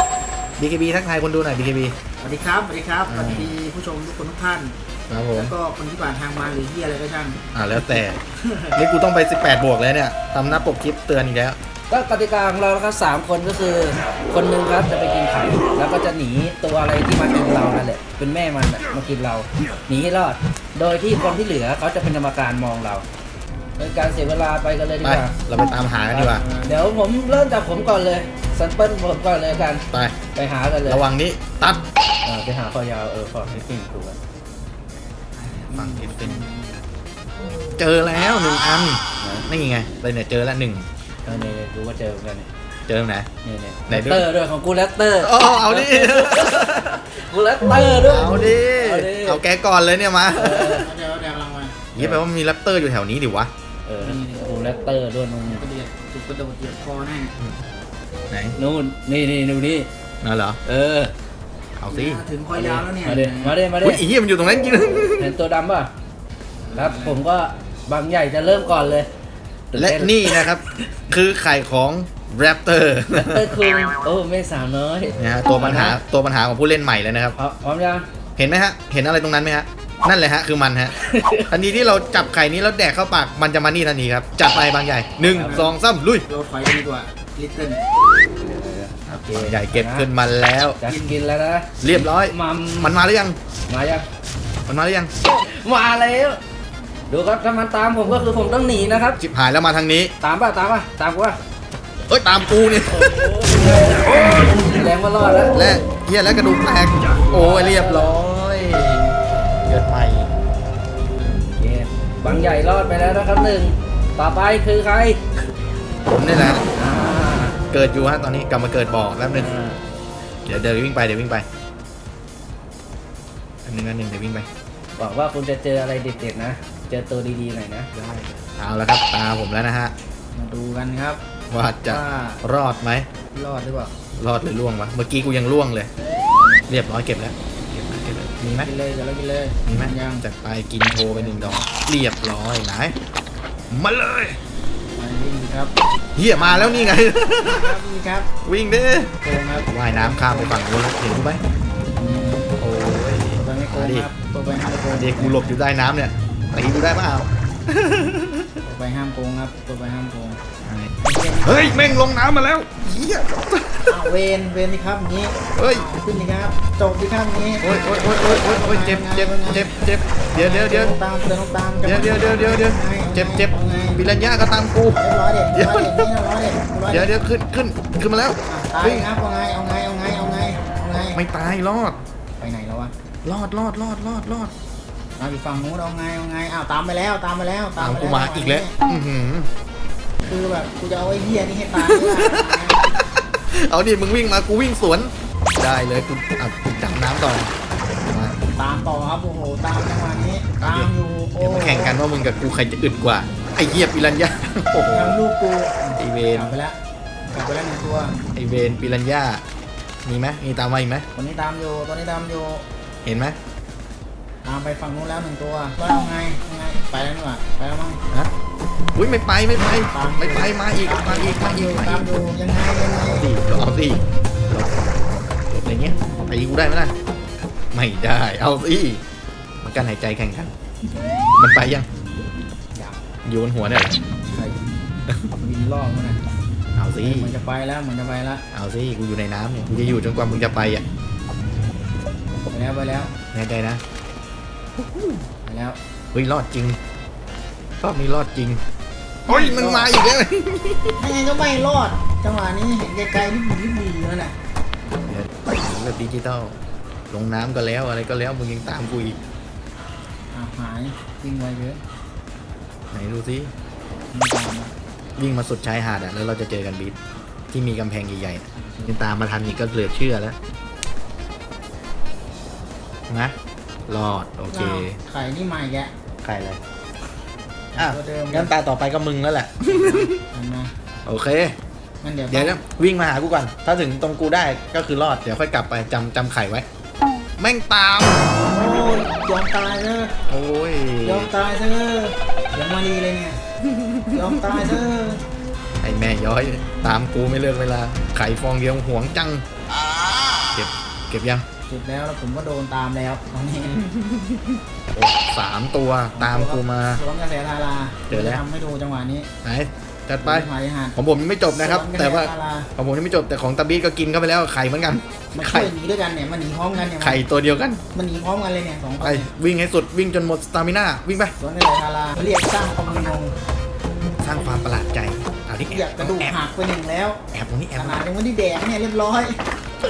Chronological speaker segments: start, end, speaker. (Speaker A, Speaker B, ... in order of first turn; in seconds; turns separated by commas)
Speaker A: 0.6-1.9, Speaker B: 2.2-4.7, Speaker A: 3.1-3.5, Speaker A: 5.1-5.5, Speaker B: 5.3-8.8, Speaker A: 7.5-8.2, Speaker A: 8.7-11.6, Speaker C: 11.9-23.0, Speaker C: 23.8-25.3, Speaker A: 25.0-26.4, Speaker B: 26.1-26.7, Speaker C: 26.2-31.0, Speaker A: 29.9-30.2, Speaker A: 30.8-31.8, Speaker C: 32.2-34.2, Speaker A: 35.4-36.5, Speaker B: 35.7-36.8, Speaker A: 37.8-40.9, Speaker C: 39.2-39.5, Speaker C: 41.2-42.5, Speaker A: 42.9-43.3, Speaker C: 43.4-49.4, Speaker A: 43.9-44.3, Speaker A: 45.2-47.0, Speaker A: 48.0-50.9, Speaker C: 50.3-50.9, Speaker B: 50.7-51.8, Speaker A: 51.9-53.5, Speaker C: 52.0-52.2, Speaker C: 53.9-55.6, Speaker B: 54.0-54.5, Speaker B: 55.5-57.3, Speaker A: 58.3-58.5, Speaker C: 58.6-59.9, Speaker A: 60.2-60.6, Speaker C: 60.6-61.1, Speaker A: 61.8-62.2, Speaker B: 61.9-63.6, Speaker C: 62.5-64.0, Speaker A: 63.8-65.3, Speaker C: 65.2-65.9, Speaker B: 66.6-67.2, Speaker C: 66.7-69.1, Speaker C: 69.7-70.5, Speaker A: 69.7-73.5, Speaker C: 73.1-76.0, Speaker A: 75.2-77.3, Speaker C: 77.3-78.1, Speaker A: 78.4-80.9, Speaker C: 81.0-81.5, Speaker A: 81.5-86.2, Speaker C: 85.2-85.7, Speaker B: 85.3-85.8, Speaker B: 86.3-87.8, Speaker C: 88.4-90.1, Speaker A: 89.1-90.8, Speaker C: 90.8-93.0, Speaker A: 91.8-93.4, Speaker C: 93.7-94.0, Speaker A: 94.7-95.1, Speaker C: 95.3-96.4, Speaker C: 97.1-99.2, Speaker A: 99.2-100.1, Speaker C: 100.2-101.4, Speaker A: 102.1-103.3, Speaker C: 102.8-105.5, Speaker A: 105.5-109.0, Speaker C: 107.1-108.1, Speaker A: 109.7-110.3, Speaker C: 111.6-115.2, Speaker A: 116.0-116.7, Speaker C: 116.7-117.6, Speaker A: 117.7-119.5, Speaker C: 119.3-119.8, Speaker A: 120.5-121.5, Speaker A: 123.6-124.5, Speaker C: 125.0-127.9, Speaker A: 127.9-129.9, Speaker B: 130.3-131.2, Speaker A: 131.5-133.1, Speaker B: 131.8-132.4, Speaker B: 133.3-133.9, Speaker A: 134.2-135.9, Speaker B: 136.3-136.7, Speaker A: 136.7-138.7, Speaker B: 138.6-140.2, Speaker A: 139.7-142.9, Speaker B: 140.8-141.7, Speaker A: 143.7-144.4, Speaker B: 144.9-145.7, Speaker A: 146.2-147.8, Speaker B: 146.3-148.3, Speaker A: 148.4-149.1, Speaker B: 149.2-150.6, Speaker A: 149.7-151.4, Speaker B: 152.0-152.5, Speaker A: 152.6-154.1, Speaker B: 153.4-155.6, Speaker A: 154.9-158.6, Speaker B: 158.6-160.4, Speaker A: 160.6-160.9, Speaker B: 161.0-162.1, Speaker A: 161.4-164.1, Speaker B: 163.9-169.7, Speaker A: 165.6-165.8, Speaker A: 167.6-170.9, Speaker B: 170.3-174.0, Speaker A: 171.8-176.1, Speaker B: 174.9-177.1, Speaker A: 176.9-179.1, Speaker B: 178.4-181.2, Speaker A: 181.1-182.0, Speaker B: 182.4-182.9, Speaker A: 183.2-184.5, Speaker B: 185.2-188.7, Speaker A: 187.8-189.5, Speaker B: 190.2-192.8, Speaker A: 191.8-197.5, Speaker A: 198.1-198.3, Speaker B: 198.5-202.0, Speaker A: 200.6-205.2, Speaker B: 204.8-206.8, Speaker A: 206.0-206.6, Speaker B: 207.3-208.2, Speaker A: 208.3-209.4, Speaker A: 210.0-211.1, Speaker B: 211.1-212.6, Speaker A: 213.0-213.4, Speaker B: 214.4-218.0, Speaker A: 218.9-222.1, Speaker B: 219.6-223.3, Speaker A: 223.1-226.9, Speaker A: 227.7-229.0, Speaker A: 229.6-230.5, Speaker A: 231.4-231.9, Speaker B: 232.7-233.0, Speaker A: 233.2-234.0, Speaker B: 234.2-234.7, Speaker B: 235.3-236.2, Speaker A: 236.8-237.3, Speaker B: 237.0-238.4, Speaker A: 238.5-240.8, Speaker B: 242.5-243.1, Speaker A: 243.3-243.8, Speaker A: 244.8-245.2, Speaker B: 245.4-245.8, Speaker A: 246.1-246.8, Speaker A: 247.8-248.6, Speaker A: 249.3-251.0, Speaker B: 249.3-249.9, Speaker B: 251.0-254.3, Speaker A: 255.1-256.6, Speaker A: 257.1-259.2, Speaker B: 260.3-261.8, Speaker A: 262.9-263.5, Speaker B: 264.1-264.7, Speaker A: 265.2-267.0, Speaker A: 267.5-270.4, Speaker B: 268.5-269.0, Speaker A: 273.1-273.3, Speaker A: 273.9-275.0, Speaker B: 274.5-275.9, Speaker A: 276.2-276.6, Speaker B: 277.7-278.5, Speaker A: 277.8-280.2, Speaker B: 279.7-280.8, Speaker A: 281.1-281.6, Speaker B: 282.0-282.6, Speaker A: 282.3-286.6, Speaker A: 287.4-288.3, Speaker B: 288.4-290.2, Speaker A: 290.3-291.3, Speaker B: 291.0-293.4, Speaker A: 293.7-294.6, Speaker B: 294.1-295.2, Speaker A: 295.8-299.4, Speaker A: 300.5-301.4, Speaker B: 301.7-304.1, Speaker A: 304.9-307.0, Speaker B: 306.1-309.3, Speaker A: 308.1-308.4, Speaker A: 309.4-315.7, Speaker B: 310.2-312.7, Speaker B: 315.3-317.2, Speaker A: 316.8-317.8, Speaker B: 317.9-319.3, Speaker A: 319.0-321.3, Speaker B: 321.4-323.3, Speaker A: 324.1-326.4, Speaker B: 325.7-327.2, Speaker A: 327.3-328.0, Speaker B: 327.7-329.4